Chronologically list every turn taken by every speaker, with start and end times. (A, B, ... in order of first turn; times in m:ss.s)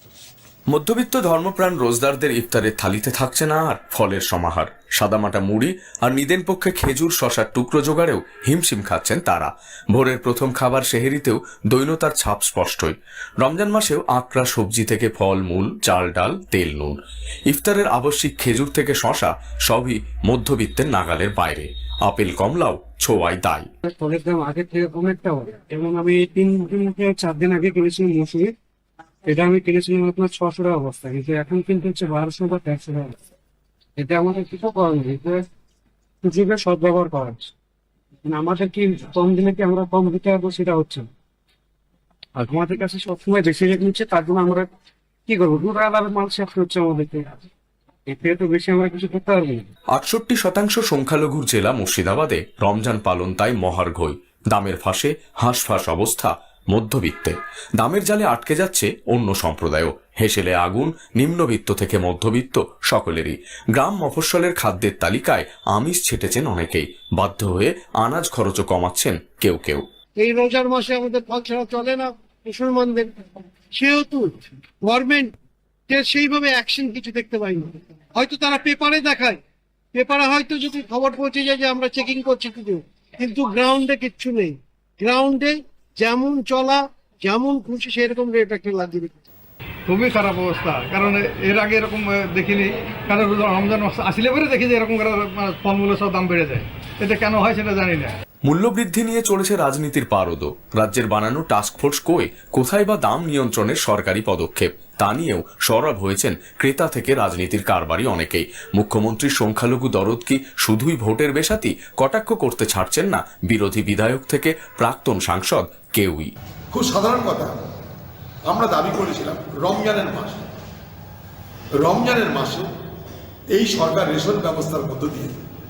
0:00.7-0:23.7 A
0:23.8-0:28.5 B
0:29.3-0:33.2 B
0:34.0-0:35.4 B
0:36.2-0:37.5 B
0:38.3-0:41.1 B
0:42.4-0:44.7 B
0:45.3-0:47.4 B
0:48.1-0:49.6 B
0:49.9-1:09.8 A
1:10.2-1:13.1 C
1:13.7-1:15.4 C
1:15.9-1:19.4 C
1:19.9-1:29.2 C
1:29.9-1:38.2 D
1:38.4-1:56.3 A
1:56.7-1:57.5 E
1:58.5-2:00.4 E
2:01.8-2:02.7 E
2:03.5-2:05.3 E